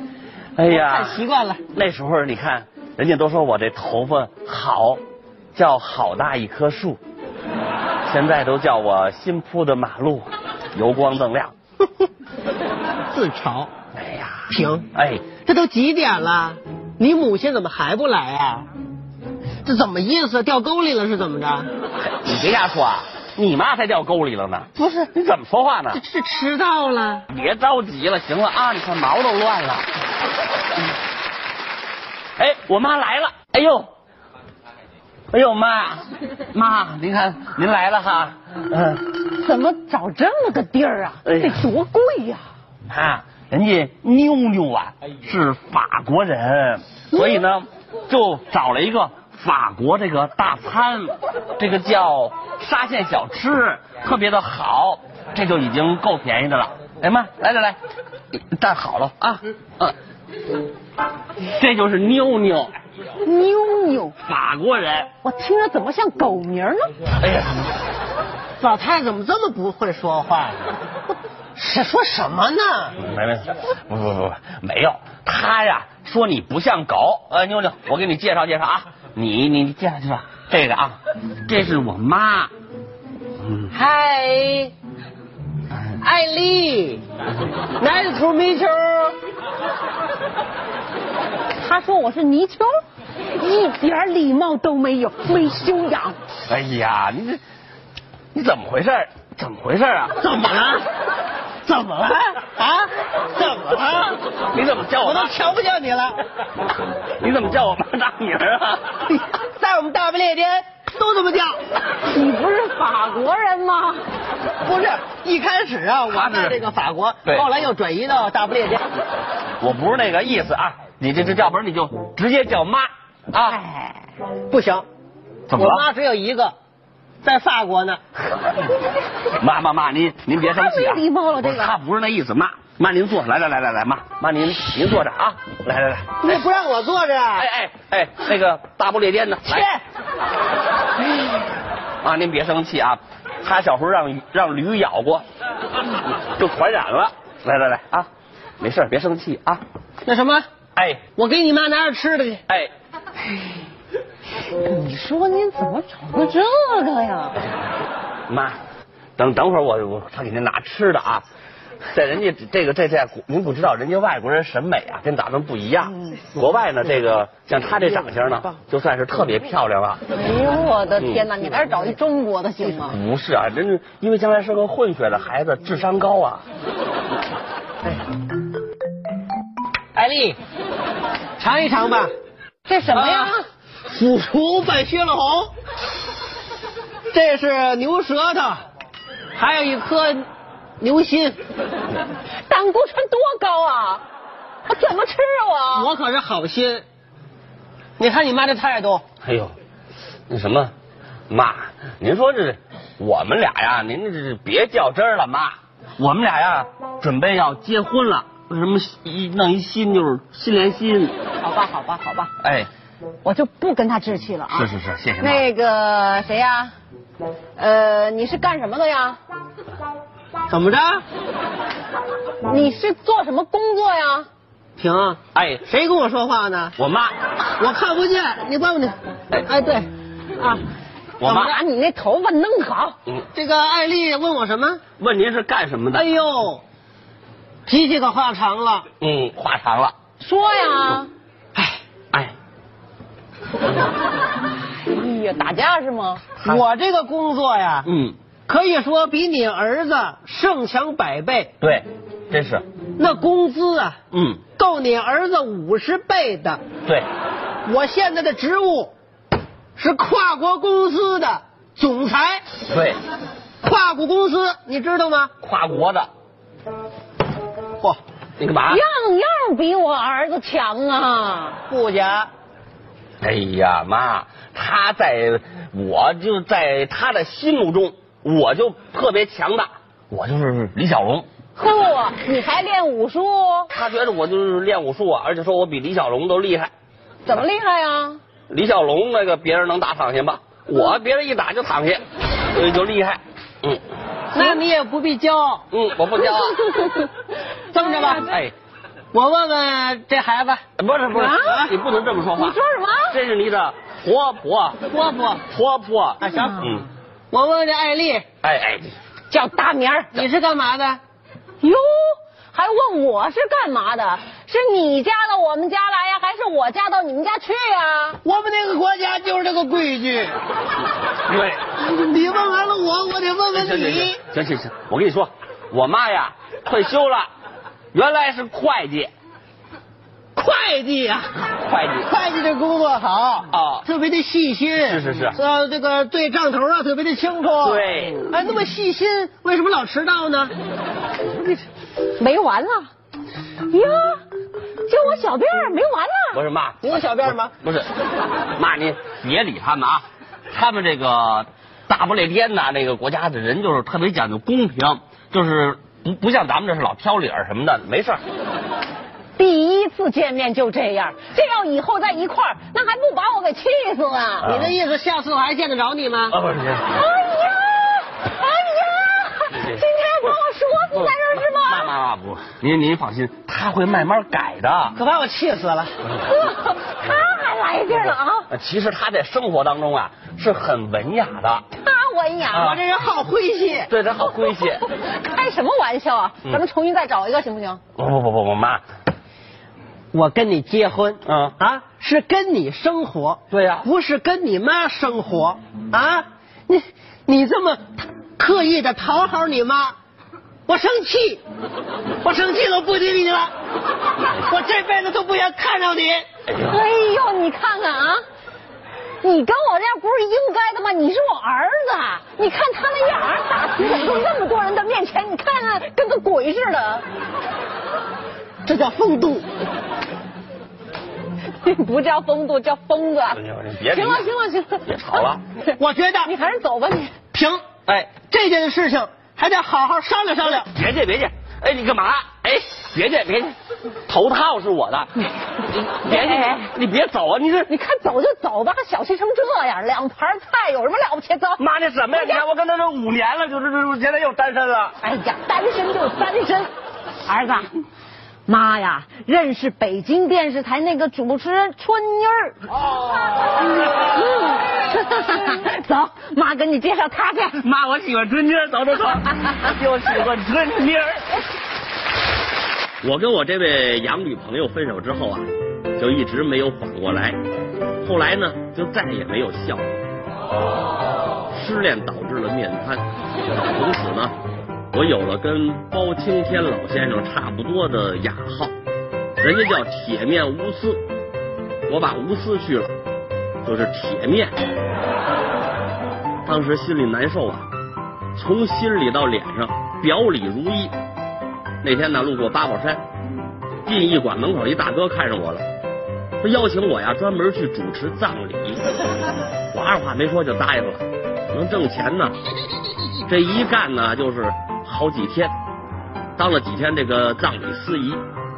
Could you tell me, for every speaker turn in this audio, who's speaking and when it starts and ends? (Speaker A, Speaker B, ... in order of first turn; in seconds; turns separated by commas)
Speaker A: 0.6-1.2, Speaker B: 0.7-1.6, Speaker A: 1.7-5.0, Speaker A: 5.5-7.0, Speaker A: 8.1-11.5, Speaker B: 13.1-13.7, Speaker A: 13.9-15.3, Speaker B: 14.5-18.7, Speaker B: 19.6-21.7, Speaker A: 22.0-26.0, Speaker B: 24.8-25.1, Speaker B: 25.9-27.3, Speaker A: 27.3-29.9, Speaker A: 32.4-33.9, Speaker A: 35.3-39.1, Speaker C: 39.3-42.4, Speaker A: 41.2-41.6, Speaker A: 42.9-57.8, Speaker C: 47.1-47.4, Speaker A: 58.4-60.0, Speaker A: 61.4-62.7, Speaker C: 63.2-64.1, Speaker A: 64.3-65.1, Speaker C: 65.2-67.0, Speaker A: 67.2-67.7, Speaker B: 68.6-70.7, Speaker B: 71.5-73.0, Speaker A: 73.0-82.5, Speaker B: 83.7-84.6, Speaker B: 86.0-87.0, Speaker B: 87.8-89.2, Speaker C: 91.6-92.8, Speaker C: 93.4-96.2, Speaker A: 96.5-97.4, Speaker A: 98.3-100.2, Speaker B: 100.2-100.8, Speaker B: 101.7-104.2, Speaker A: 104.5-105.4, Speaker B: 105.0-106.2, Speaker A: 107.2-109.0, Speaker B: 109.1-111.6, Speaker C: 112.1-114.0, Speaker B: 114.6-118.8, Speaker A: 116.1-116.6, Speaker A: 119.6-123.6, Speaker C: 123.5-124.1, Speaker B: 124.5-124.9, Speaker A: 125.5-125.8, Speaker B: 125.5-126.5, Speaker B: 127.2-128.0, Speaker A: 128.2-128.6, Speaker A: 129.4-136.4, Speaker C: 130.4-131.7, Speaker B: 136.2-137.5, Speaker A: 137.4-139.7, Speaker B: 139.5-139.8, Speaker A: 142.0-145.2, Speaker A: 146.1-148.1, Speaker A: 148.6-149.6, Speaker B: 150.1-150.5, Speaker A: 150.8-151.1, Speaker B: 151.2-152.4, Speaker C: 154.5-157.4, Speaker A: 158.3-158.6, Speaker A: 159.2-161.2, Speaker A: 161.9-170.0, Speaker B: 167.9-168.5, Speaker C: 170.1-173.0, Speaker A: 171.0-171.3, Speaker A: 172.9-176.4, Speaker B: 179.9-180.4, Speaker B: 181.4-182.1, Speaker C: 182.7-183.4, Speaker B: 182.9-183.3, Speaker B: 183.9-185.5, Speaker B: 187.1-188.6, Speaker B: 189.4-190.3, Speaker B: 190.8-191.4, Speaker C: 192.5-194.0, Speaker C: 194.7-195.9, Speaker B: 195.7-196.8, Speaker B: 198.0-199.0, Speaker A: 199.2-199.5, Speaker A: 200.3-200.7, Speaker A: 201.3-211.1, Speaker C: 211.4-212.3, Speaker A: 212.4-212.7, Speaker C: 213.2-214.7, Speaker A: 214.5-215.4, Speaker C: 215.2-216.7, Speaker C: 217.6-219.2, Speaker B: 220.5-221.0, Speaker C: 222.4-224.3, Speaker B: 224.8-226.7, Speaker A: 225.3-225.6, Speaker A: 226.8-227.1, Speaker B: 227.6-230.6, Speaker A: 231.2-231.6, Speaker C: 231.3-232.9, Speaker B: 233.3-234.8, Speaker A: 235.0-236.1, Speaker B: 235.9-236.6, Speaker B: 237.7-238.9, Speaker A: 239.0-239.9, Speaker C: 240.2-241.1, Speaker C: 244.6-246.2, Speaker B: 246.4-247.9, Speaker A: 247.8-248.2, Speaker B: 248.5-251.5, Speaker A: 251.6-252.6, Speaker B: 253.0-254.0, Speaker A: 254.1-254.4, Speaker B: 254.6-256.6, Speaker B: 257.6-258.9, Speaker B: 259.8-262.4, Speaker A: 262.7-263.0, Speaker B: 263.6-265.3, Speaker A: 265.4-266.1, Speaker A: 268.4-268.8, Speaker C: 268.7-271.6, Speaker B: 271.7-272.3, Speaker A: 273.2-281.3, Speaker C: 281.6-283.7, Speaker A: 283.7-286.7, Speaker C: 287.3-288.2, Speaker A: 288.5-293.8, Speaker B: 294.3-295.7, Speaker A: 295.7-296.6, Speaker C: 296.2-297.2, Speaker B: 297.7-298.3, Speaker C: 297.8-298.2, Speaker A: 298.2-298.5, Speaker B: 299.1-300.6, Speaker A: 300.8-302.6, Speaker C: 301.1-301.6, Speaker B: 301.4-301.7, Speaker C: 302.4-303.2, Speaker A: 303.1-304.8, Speaker B: 304.9-305.4, Speaker A: 305.5-306.9, Speaker B: 306.2-308.2, Speaker A: 308.4-309.0, Speaker C: 309.3-310.1, Speaker B: 310.1-311.0, Speaker C: 311.6-318.2, Speaker B: 318.2-320.4, Speaker A: 321.3-321.6, Speaker B: 321.9-324.2, Speaker A: 323.5-327.3, Speaker A: 327.9-329.1, Speaker B: 330.4-331.3, Speaker A: 331.6-332.1, Speaker B: 332.1-340.5, Speaker A: 333.5-333.9, Speaker A: 334.9-335.4, Speaker A: 337.6-338.3, Speaker C: 342.2-342.9, Speaker C: 343.7-344.2, Speaker C: 344.9-346.4, Speaker A: 346.3-347.9, Speaker B: 346.8-347.5, Speaker A: 348.6-358.2, Speaker C: 359.4-364.5, Speaker A: 364.4-364.8, Speaker B: 364.4-366.4, Speaker A: 366.3-367.0, Speaker C: 366.9-371.9, Speaker A: 369.5-370.4, Speaker A: 370.9-375.0, Speaker B: 374.9-376.0, Speaker C: 376.2-378.5, Speaker A: 378.5-381.6, Speaker C: 381.8-382.8, Speaker A: 382.5-382.8, Speaker B: 382.6-383.9, Speaker A: 383.9-384.8, Speaker C: 385.2-387.8, Speaker A: 388.0-388.8, Speaker B: 390.1-399.9, Speaker A: 391.2-391.6, Speaker A: 393.5-393.9, Speaker B: 400.7-401.4, Speaker B: 402.2-403.5, Speaker B: 404.4-406.3, Speaker A: 406.5-406.8, Speaker C: 406.6-408.2, Speaker C: 409.2-417.0, Speaker B: 418.6-419.5, Speaker C: 421.6-427.2, Speaker A: 423.3-424.2, Speaker A: 424.9-425.4, Speaker B: 425.8-426.3, Speaker B: 427.3-427.6, Speaker A: 427.9-428.1, Speaker B: 428.2-430.7, Speaker A: 430.5-433.6, Speaker A: 434.1-435.1, Speaker A: 435.9-437.7, Speaker C: 436.1-436.7, Speaker C: 437.7-442.4, Speaker A: 441.6-445.0, Speaker C: 445.0-446.7, Speaker C: 447.3-447.7, Speaker C: 448.5-452.6, Speaker C: 454.1-457.6, Speaker A: 457.6-461.3, Speaker A: 463.0-467.4, Speaker A: 468.0-469.9, Speaker A: 471.5-474.3, Speaker A: 474.9-478.7, Speaker A: 479.4-481.0, Speaker A: 481.9-482.9, Speaker A: 483.6-484.5, Speaker A: 486.4-487.7, Speaker A: 488.4-490.9, Speaker A: 491.8-493.0, Speaker A: 493.9-495.6, Speaker A: 496.4-498.8, Speaker A: 499.7-502.4, Speaker A: 503.3-505.5, Speaker A: 506.4-508.2